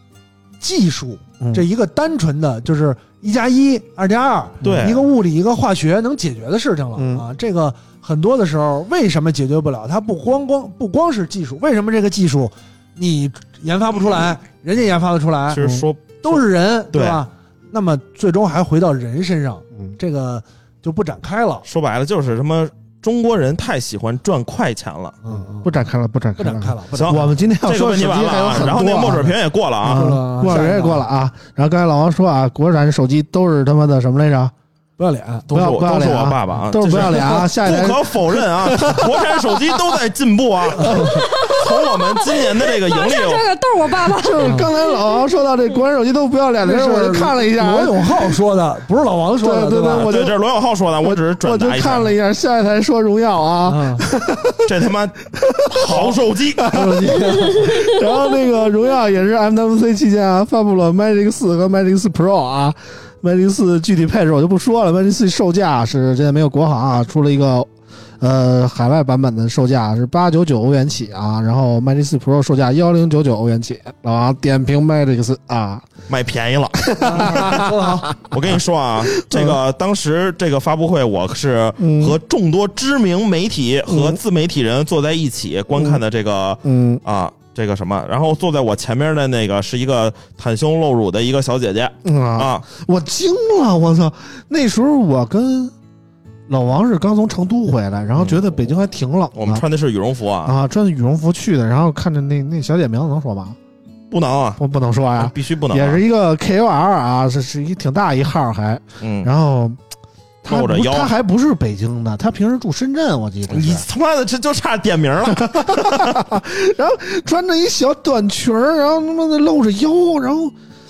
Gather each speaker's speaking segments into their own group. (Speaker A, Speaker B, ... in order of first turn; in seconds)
Speaker A: 0.6-21.6, 25.2-25.7, 26.4-27.3, 29.9-31.0, 35.0-35.5, 44.4-44.7, 46.6-50.1, 53.6-54.0, 55.9-57.9, 77.0-78.1
Speaker B: 1.4-1.6, 4.6-4.9, 7.0-7.3, 15.6-15.8, 25.3-34.5, 35.5-40.0, 40.8-41.2, 44.0-48.3, 49.4-50.4, 51.0-54.7, 55.4-76.0, 76.9-78.4, 79.0-79.6, 81.8-82.2, 83.9-84.2, 85.7-86.0, 86.6-87.0, 92.0-95.7, 96.5-99.6, 100.4-103.6, 104.6-109.8, 110.4-113.8, 115.3-120.5
Speaker C: 4.6-5.0, 15.5-17.2, 21.6-25.1, 26.9-30.7, 35.5-43.4, 49.9-52.1, 54.6-56.7, 76.1-77.7, 78.2-92.7, 98.2-98.7, 99.3-100.5, 104.1-104.6, 105.2-106.0, 109.0-109.3, 110.5-111.1, 113.5-116.2
Speaker D: 41.1-41.8, 42.4-44.9